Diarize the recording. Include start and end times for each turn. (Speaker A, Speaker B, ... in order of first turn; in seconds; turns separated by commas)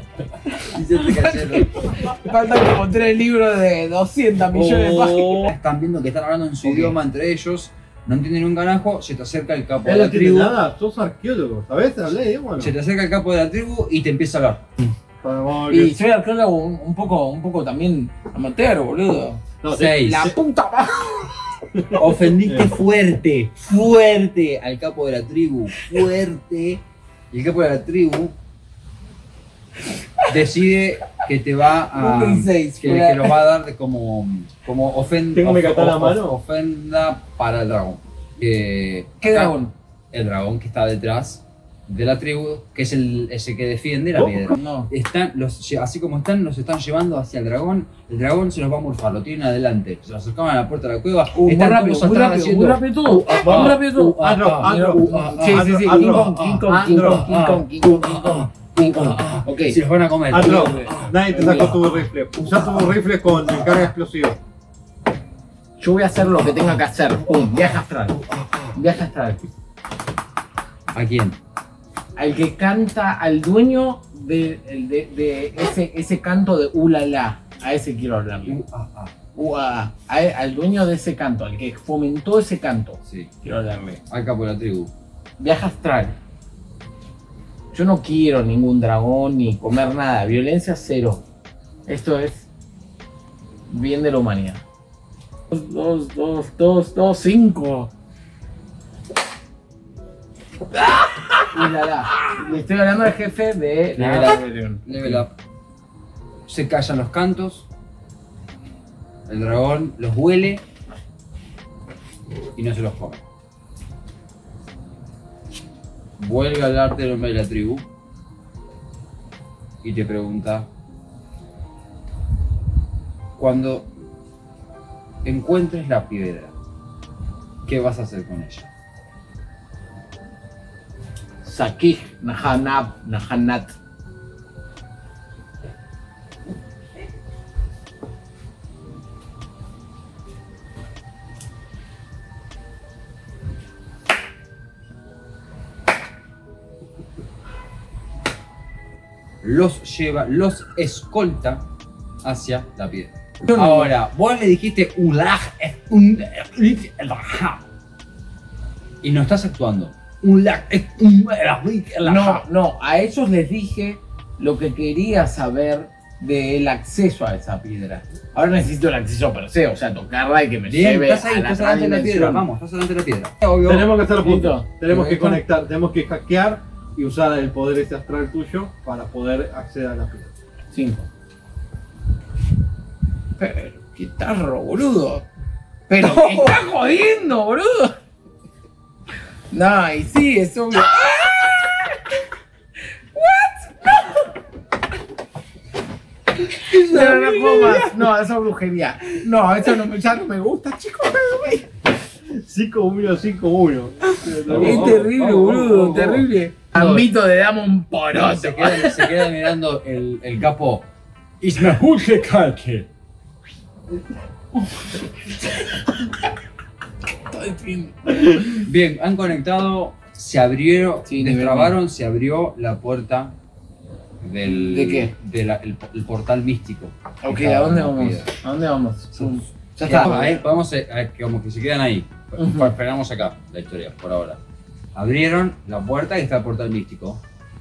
Speaker A: 0.6-1.9, Speaker B: 1.0-5.5, Speaker A: 4.5-10.6, Speaker B: 6.6-7.0, Speaker C: 9.8-12.7, Speaker A: 12.6-14.6, Speaker C: 15.2-16.0, Speaker B: 15.7-21.4, Speaker C: 19.6-20.2, Speaker A: 19.7-20.3, Speaker C: 21.8-22.7, Speaker A: 21.9-28.4, Speaker A: 30.3-39.6, Speaker B: 31.9-33.4, Speaker C: 35.3-36.4, Speaker B: 39.2-39.7, Speaker A: 40.1-56.2, Speaker B: 44.5-44.9, Speaker B: 51.3-59.8, Speaker C: 53.4-57.5, Speaker A: 57.0-61.7, Speaker C: 60.3-64.4, Speaker B: 60.3-61.8, Speaker B: 65.8-68.2, Speaker B: 68.7-69.4, Speaker A: 70.9-71.4, Speaker B: 72.2-78.6, Speaker A: 78.5-79.1, Speaker B: 79.3-84.0, Speaker A: 83.1-83.3, Speaker A: 84.1-84.9, Speaker B: 85.4-86.2, Speaker B: 87.7-91.2, Speaker B: 91.9-92.5, Speaker B: 93.7-94.6, Speaker B: 95.5-97.9, Speaker B: 101.5-105.2, Speaker A: 104.0-105.3, Speaker A: 106.5-107.7, Speaker A: 109.3-110.7, Speaker A: 112.5-113.2, Speaker A: 116.2-117.9, Speaker A: 119.8-120.7, Speaker A: 123.4-123.9, Speaker A: 125.2-126.5, Speaker A: 127.7-128.7, Speaker B: 131.4-133.8, Speaker A: 149.4-151.7, Speaker A: 152.2-157.7, Speaker B: 153.5-153.9, Speaker A: 159.0-162.4, Speaker B: 162.0-172.4, Speaker A: 170.7-173.9, Speaker C: 173.7-180.3, Speaker B: 174.2-174.7, Speaker A: 174.9-175.4, Speaker B: 180.7-181.1, Speaker B: 183.4-185.3, Speaker B: 185.9-188.0, Speaker A: 186.0-186.7, Speaker B: 189.5-192.0, Speaker B: 193.2-194.2, Speaker B: 196.5-201.7, Speaker A: 196.7-197.9, Speaker C: 202.3-205.1, Speaker A: 204.5-207.1, Speaker B: 204.5-209.2, Speaker A: 208.2-210.9, Speaker A: 211.4-212.9, Speaker B: 217.3-218.3, Speaker A: 218.3-223.4, Speaker B: 221.1-221.8, Speaker A: 224.2-228.3, Speaker B: 224.7-225.1, Speaker B: 227.2-230.3, Speaker A: 229.2-234.4, Speaker C: 229.8-230.2, Speaker B: 232.4-232.7, Speaker A: 234.9-237.2